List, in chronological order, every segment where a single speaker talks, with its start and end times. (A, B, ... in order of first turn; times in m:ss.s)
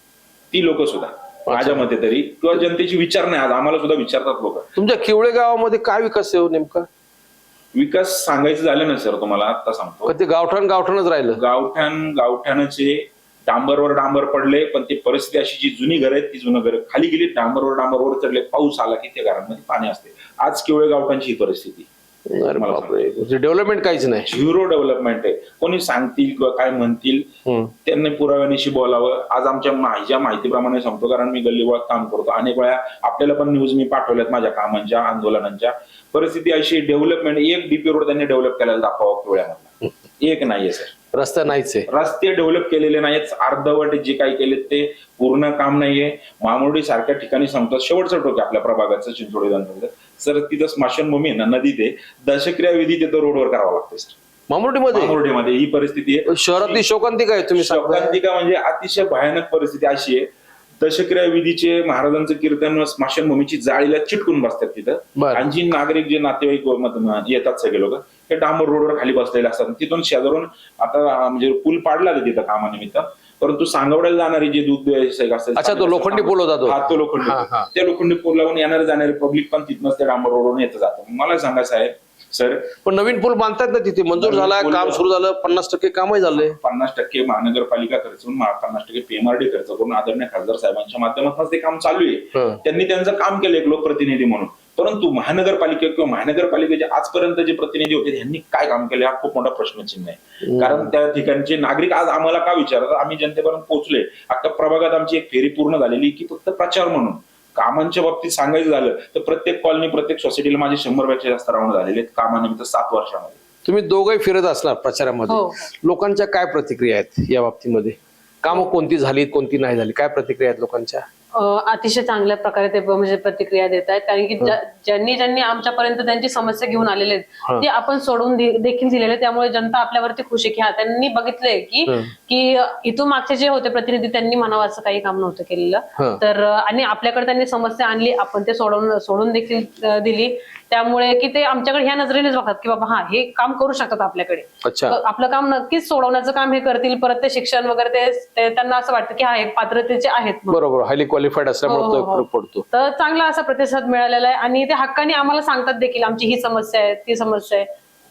0:00.5-0:04.7 A
0:01.5-0:01.9 B
0:04.8-0:06.9 B
0:07.7-0:10.2 A
0:10.1-0:11.4 B
0:11.3-0:21.9 A
0:22.3-0:24.4 B
0:22.6-0:23.1 A
0:24.3-0:27.3 A
0:27.5-0:27.7 B
0:27.8-0:41.0 A
0:41.1-0:41.9 B
0:41.9-0:54.2 A
0:54.5-0:55.2 B
0:54.9-0:56.8 A
0:56.3-0:58.2 B
0:57.6-1:00.3 A
1:00.8-1:22.7 A
1:05.2-1:05.4 B
1:15.6-1:17.7 B
1:22.8-1:26.6 B
1:24.2-1:25.1 A
1:26.3-1:53.4 A
1:32.4-1:32.6 B
1:40.4-1:40.9 B
1:53.6-2:01.1 B
1:55.3-1:55.7 C
2:01.3-2:30.6 C
2:16.0-2:16.2 B
2:24.6-2:25.0 B
2:30.5-2:32.7 B
2:31.7-2:37.7 C